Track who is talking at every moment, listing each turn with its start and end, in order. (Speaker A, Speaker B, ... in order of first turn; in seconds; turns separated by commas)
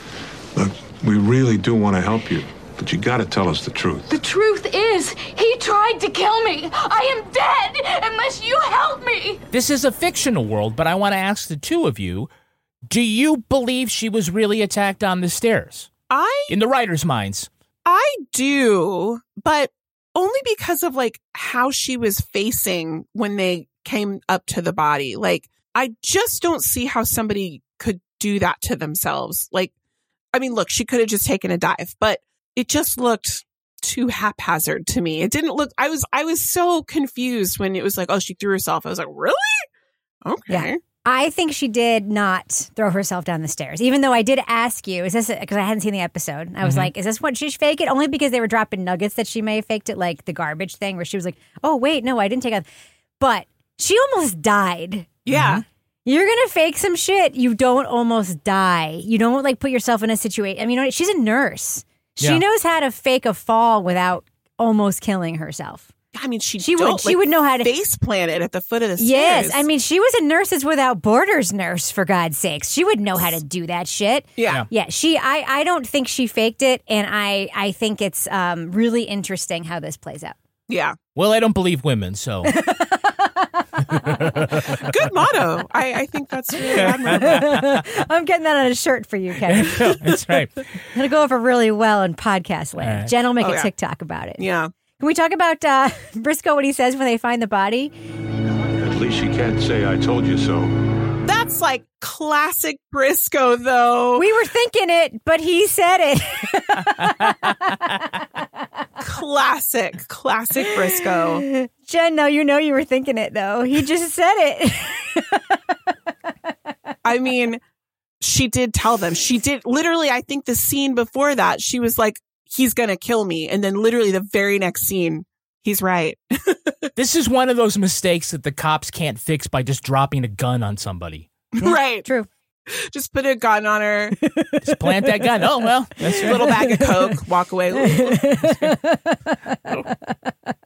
Speaker A: 0.6-4.1, Speaker B: 4.1-9.4, Speaker C: 9.5-12.3, Speaker C: 12.9-15.9, Speaker D: 16.1-16.5, Speaker C: 16.5-17.5, Speaker D: 17.9-29.7, Speaker D: 30.3-39.7, Speaker D: 40.2-40.8, Speaker E: 40.5-52.7, Speaker C: 46.6-46.9, Speaker E: 53.2-55.2, Speaker D: 55.3-55.6, Speaker C: 55.3-55.6, Speaker E: 56.1-65.9, Speaker D: 66.2-69.7, Speaker E: 66.6-67.7, Speaker E: 69.0-80.4, Speaker D: 74.4-74.7, Speaker D: 80.7-81.0, Speaker C: 81.2-82.5, Speaker E: 82.5-84.1, Speaker C: 83.9-84.8, Speaker D: 84.8-87.5, Speaker E: 86.7-90.1, Speaker C: 86.8-87.8, Speaker C: 89.5-90.5, Speaker E: 90.9-94.5, Speaker C: 92.8-93.1, Speaker D: 93.4-93.7, Speaker D: 94.4-94.7, Speaker E: 95.0-97.9, Speaker A: 98.8-100.7, Speaker D: 101.2-104.3, Speaker E: 104.2-107.9, Speaker D: 109.0-111.5, Speaker E: 110.7-115.4, Speaker D: 117.0-117.6, Speaker D: 118.2-126.9, Speaker C: 127.0-131.3, Speaker D: 131.6-132.1, Speaker E: 131.7-132.3, Speaker D: 132.7-134.2, Speaker C: 134.6-136.6, Speaker E: 136.0-137.1, Speaker D: 136.1-138.2, Speaker E: 137.8-139.5